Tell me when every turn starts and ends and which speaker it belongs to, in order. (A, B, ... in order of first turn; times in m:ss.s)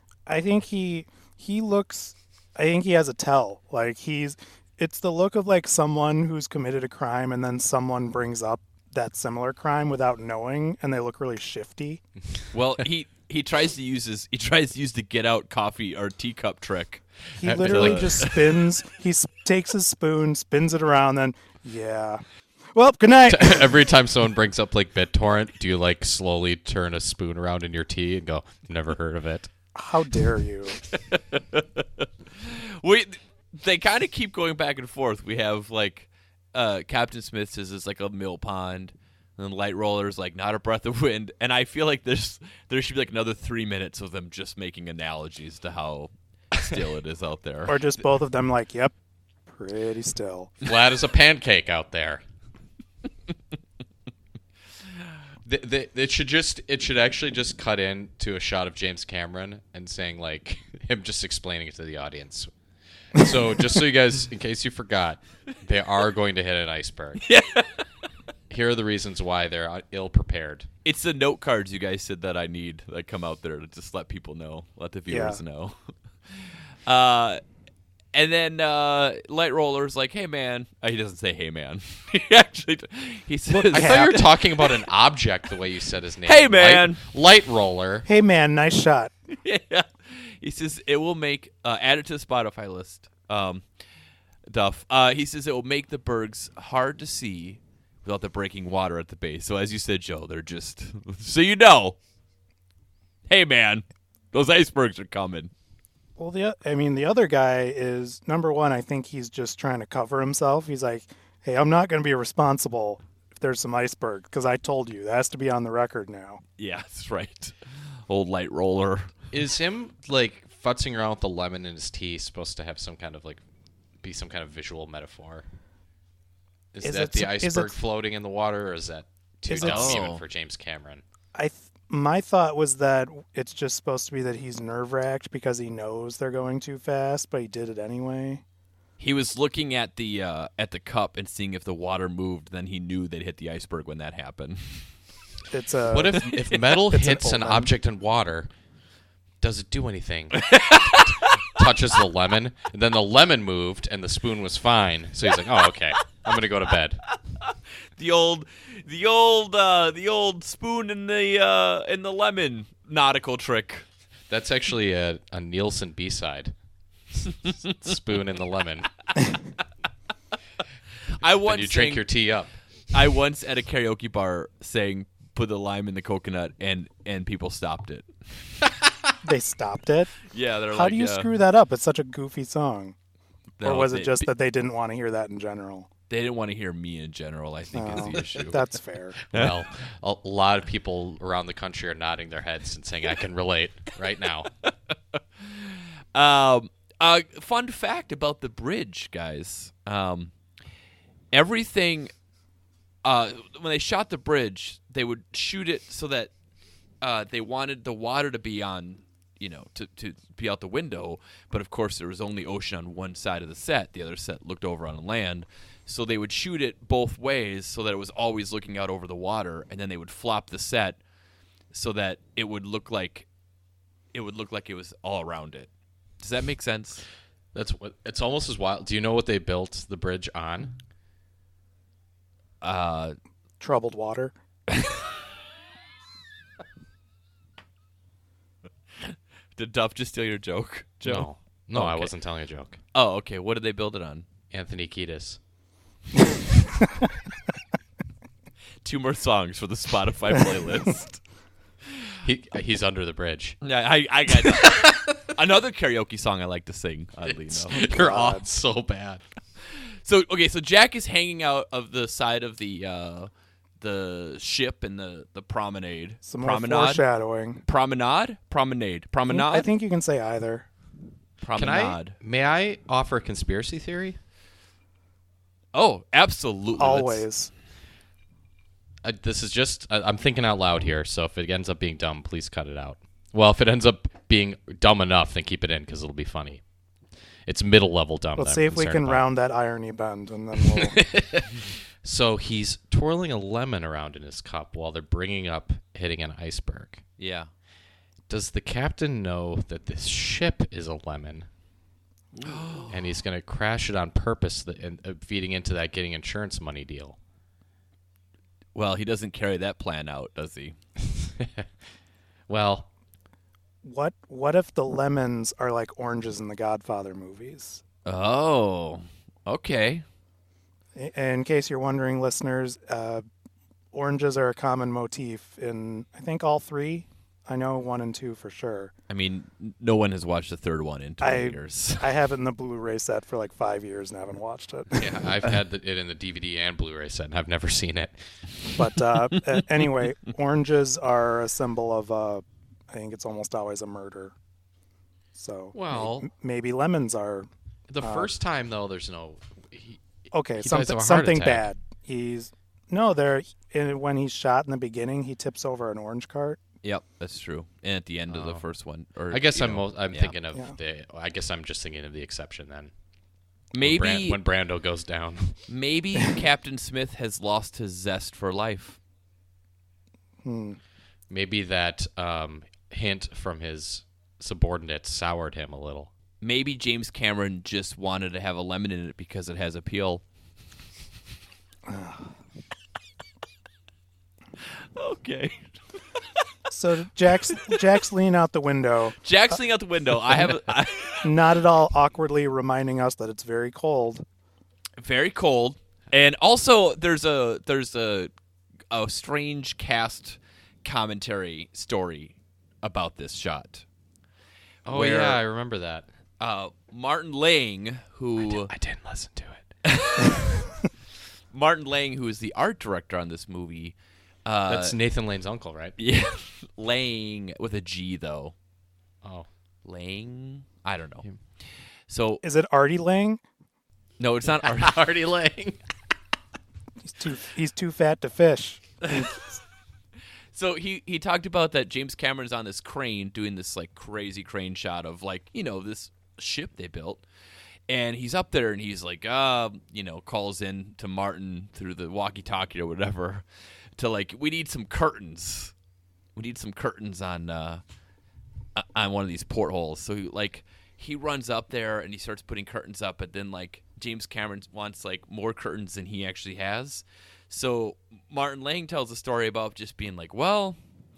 0:00.3-0:12.0 A
0:12.5-0:17.0 B
0:17.4-0:22.2 A
0:17.4-0:18.3 C
0:17.6-0:18.6 B
0:22.8-0:23.7 A
0:23.3-0:29.5 C
0:29.7-0:30.8 A
0:30.9-0:47.9 B
0:47.7-0:48.9 A
0:49.5-0:50.5 A
0:50.6-0:52.2 C
0:55.4-1:02.5 C
1:03.1-1:07.2 C
1:07.2-1:07.8 B
1:08.5-1:10.7 C
1:10.8-1:17.4 B
1:15.1-1:15.4 A
1:18.1-1:24.9 B
1:23.5-1:24.2 A
1:23.7-1:28.1 C
1:26.2-1:27.0 B
1:28.1-1:29.1 A
1:29.3-1:33.6 B
1:34.5-1:42.0 B
1:43.3-1:45.5 B
1:46.2-1:56.4 A
1:56.6-1:59.1 B
1:59.3-2:03.4 C
2:04.0-2:05.4 C
2:06.7-2:11.0 C
2:06.8-2:07.8 A
2:09.5-2:10.0 A
2:09.6-2:10.2 B
2:11.4-2:18.4 A
2:19.0-2:24.9 B
2:25.5-2:27.7 A
2:25.9-2:28.5 C
2:29.4-2:37.0 C
2:30.4-2:31.6 B
2:37.4-2:43.9 B
2:44.3-2:46.5 C
2:47.4-2:48.9 C
2:51.2-2:52.0 B
2:51.4-2:52.5 C
2:52.9-2:58.1 B
2:59.2-3:00.2 A
3:00.3-3:01.3 B
3:00.7-3:03.0 A
3:03.6-3:04.3 B
3:03.6-3:05.9 A
3:06.1-3:08.6 B
3:07.7-3:09.2 A
3:09.3-3:14.5 C
3:09.3-3:09.6 B
3:14.6-3:20.3 B
3:21.3-3:22.1 B
3:23.0-3:26.3 B
3:27.0-3:41.0 B
3:41.7-3:43.3 B
3:44.1-3:45.7 B
3:46.2-3:47.0 B
3:47.5-3:50.8 C
3:52.6-3:53.2 B
3:53.6-3:54.3 A
3:54.7-3:55.0 B
3:59.0-4:02.1 B
4:01.0-4:02.8 C
4:02.9-4:04.3 B
4:04.5-4:05.4 C
4:08.8-4:11.2 B
4:12.2-4:13.6 C
4:13.6-4:17.9 B
4:14.4-4:15.2 C
4:17.3-4:19.2 C
4:17.7-4:18.5 A
4:19.7-4:27.0 B
4:26.2-4:27.6 A
4:27.6-4:29.7 B
4:29.3-4:30.7 A
4:31.4-4:32.2 B
4:31.6-4:34.2 C
4:35.7-4:37.3 B
4:36.8-4:37.5 A
4:39.0-4:46.6 C
4:47.5-4:49.2 C
4:48.4-4:51.0 A
4:50.6-4:57.0 C
4:57.2-4:57.5 B
4:58.3-5:01.5 C
5:02.4-5:03.1 B
5:02.9-5:07.2 C
5:08.8-5:10.8 B
5:11.0-5:11.7 C
5:12.5-5:12.9 C
5:13.8-5:17.8 A
5:18.0-5:20.0 B
5:21.0-5:23.2 A
5:23.9-5:28.9 A
5:29.1-5:32.1 B
5:31.2-5:35.1 A
5:35.0-5:38.2 C
5:38.8-5:44.4 A
5:45.4-5:47.5 A
5:45.7-5:46.3 C
5:47.9-5:50.0 C
5:48.0-5:48.3 A
5:50.3-5:56.6 A
5:50.6-5:51.7 C
5:56.8-6:00.4 B
5:58.3-5:58.6 C
5:59.3-6:02.9 C
6:03.7-6:04.4 B
6:03.8-6:05.6 C
6:05.7-6:09.0 B
6:10.4-6:10.8 A
6:11.3-6:16.1 C
6:16.4-6:20.2 B
6:21.9-6:22.3 A
6:25.0-6:25.6 B
6:26.7-6:29.2 A
6:27.5-6:28.0 B
6:29.2-6:31.4 B
6:31.2-6:34.2 A
6:35.0-6:38.3 B
6:38.9-6:43.8 B
6:44.9-6:46.1 C
6:44.9-6:45.4 B
6:46.4-6:48.7 B
6:48.4-6:49.7 C
6:49.8-6:50.6 B
6:51.5-6:55.0 B
6:54.7-6:56.0 C
6:56.0-6:58.5 B
6:59.8-7:01.3 B
7:02.1-7:02.4 B
7:02.4-7:03.4 A
7:04.2-7:05.0 B
7:04.6-7:05.8 C
7:07.0-7:09.6 A
7:09.0-7:09.3 B
7:10.5-7:17.2 B
7:17.9-7:23.4 B
7:24.0-7:25.7 B
7:26.4-7:27.8 B
7:28.8-7:40.8 B